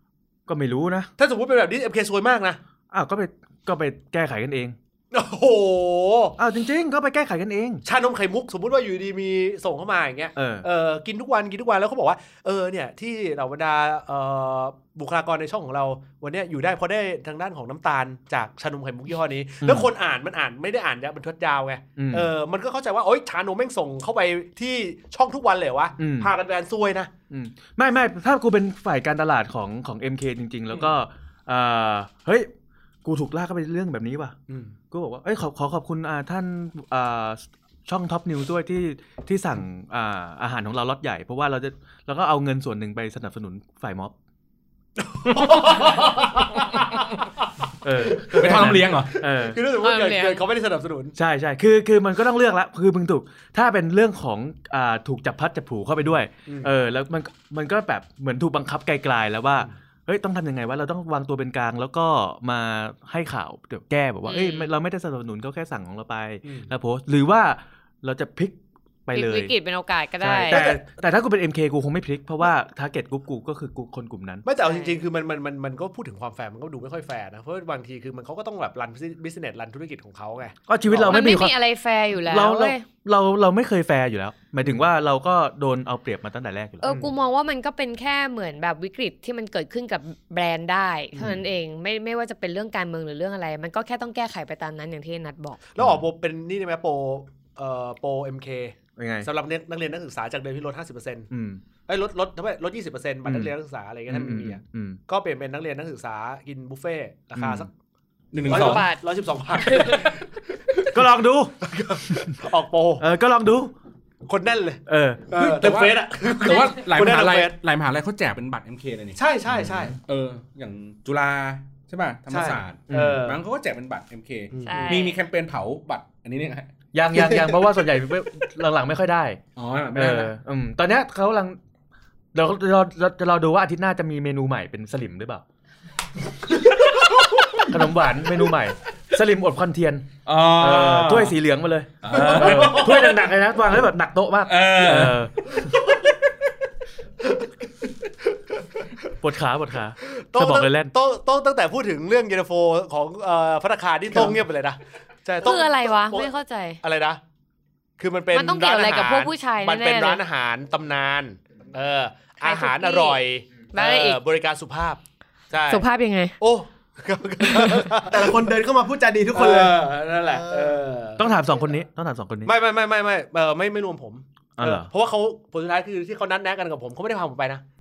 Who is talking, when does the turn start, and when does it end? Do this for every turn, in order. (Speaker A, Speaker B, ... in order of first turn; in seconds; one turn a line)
Speaker A: 0.5-1.1
Speaker B: 1.2-2.6
Speaker A: 2.9-4.8
Speaker B: 5.1-6.4
Speaker A: 6.4-7.8
Speaker B: 7.9-27.1
Speaker A: 10.4-10.7
Speaker A: 19.6-19.9
Speaker A: 22.0-22.3
Speaker A: 26.0-26.3
Speaker A: 27.3-32.5
Speaker A: 33.0-34.4
Speaker A: 34.9-44.1
Speaker B: 45.0-47.2
Speaker A: 47.8-49.6
Speaker C: 48.3-49.1
Speaker B: 48.3-51.1
Speaker D: 49.8-50.5
Speaker A: 51.1-69.5
Speaker D: 64.2-64.7
Speaker B: 66.4-66.7
Speaker D: 69.1-70.8
Speaker A: 70.2-74.5
Speaker B: 70.5-70.8
Speaker B: 74.5-81.3
Speaker D: 74.6-75.0
Speaker A: 80.7-81.6
Speaker D: 81.1-82.9
Speaker A: 82.3-86.9
Speaker D: 86.8-95.6
Speaker B: 86.8-87.1
Speaker A: 91.1-91.4
Speaker B: 95.8-101.3
Speaker A: 99.0-99.3
Speaker A: 101.3-101.6
Speaker B: 101.9-107.7
Speaker A: 103.2-103.5
Speaker A: 104.1-105.0
Speaker A: 107.4-107.7
Speaker C: 108.3-108.9
Speaker B: 108.4-110.9
Speaker D: 108.5-109.0
Speaker D: 109.6-110.1
Speaker A: 110.9-111.5
Speaker B: 111.6-113.0
Speaker A: 112.1-112.4
Speaker A: 113.0-113.7
Speaker B: 114.2-117.5
Speaker A: 114.9-115.6
Speaker C: 115.4-119.2
Speaker B: 119.2-120.0
Speaker A: 119.6-119.9
Speaker C: 120.0-126.7
Speaker B: 122.3-123.4
Speaker A: 122.9-123.2
Speaker B: 124.5-125.0
Speaker D: 124.6-125.2
Speaker A: 126.9-129.4
Speaker C: 129.6-130.3
Speaker A: 129.9-131.6
Speaker A: 132.3-135.4
Speaker C: 137.3-137.6
Speaker A: 137.6-145.4
Speaker C: 140.2-141.3
Speaker C: 142.0-143.1
Speaker B: 142.1-143.0
Speaker C: 144.5-145.7
Speaker A: 149.2-150.9
Speaker B: 150.1-156.3
Speaker D: 155.4-156.8
Speaker B: 156.8-157.2
Speaker B: 158.0-165.0
Speaker D: 158.3-160.2
Speaker D: 162.4-164.2
Speaker B: 165.5-165.9
Speaker D: 165.7-166.3
Speaker B: 166.4-168.4
Speaker D: 167.5-167.8
Speaker E: 168.1-170.8
Speaker B: 169.3-171.3
Speaker A: 171.2-172.5
Speaker B: 172.5-177.6
Speaker A: 174.6-174.9